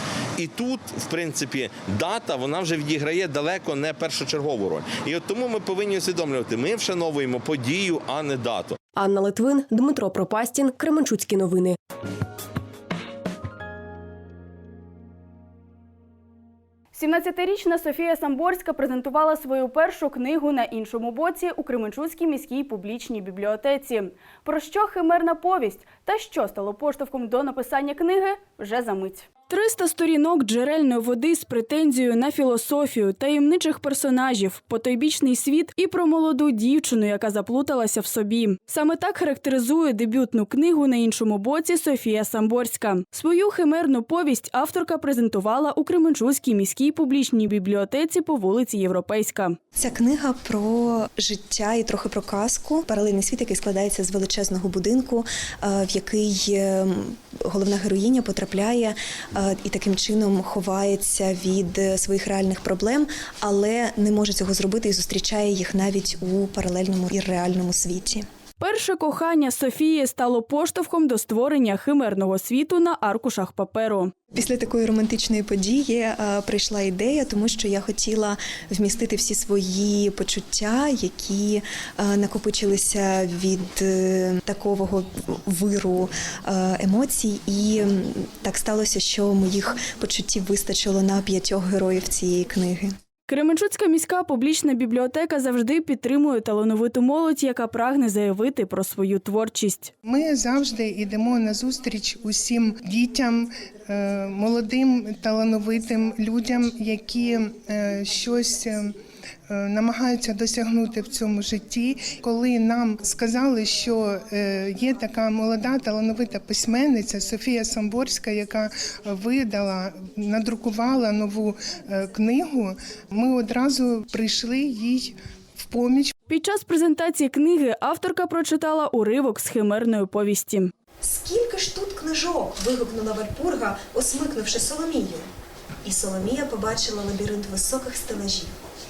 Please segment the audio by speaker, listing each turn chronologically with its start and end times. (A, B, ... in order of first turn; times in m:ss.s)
0:00.4-0:08.8 A
0:09.0-0:11.8 B
0:16.9-0:49.6 C
0:49.8-1:08.2 D
1:08.6-1:14.1 C
1:14.3-1:32.9 D
1:33.3-1:39.9 C
1:40.0-1:48.9 E
1:49.5-2:06.1 E
2:06.3-2:10.7 C
2:11.0-2:15.2 D
2:15.8-2:18.5 D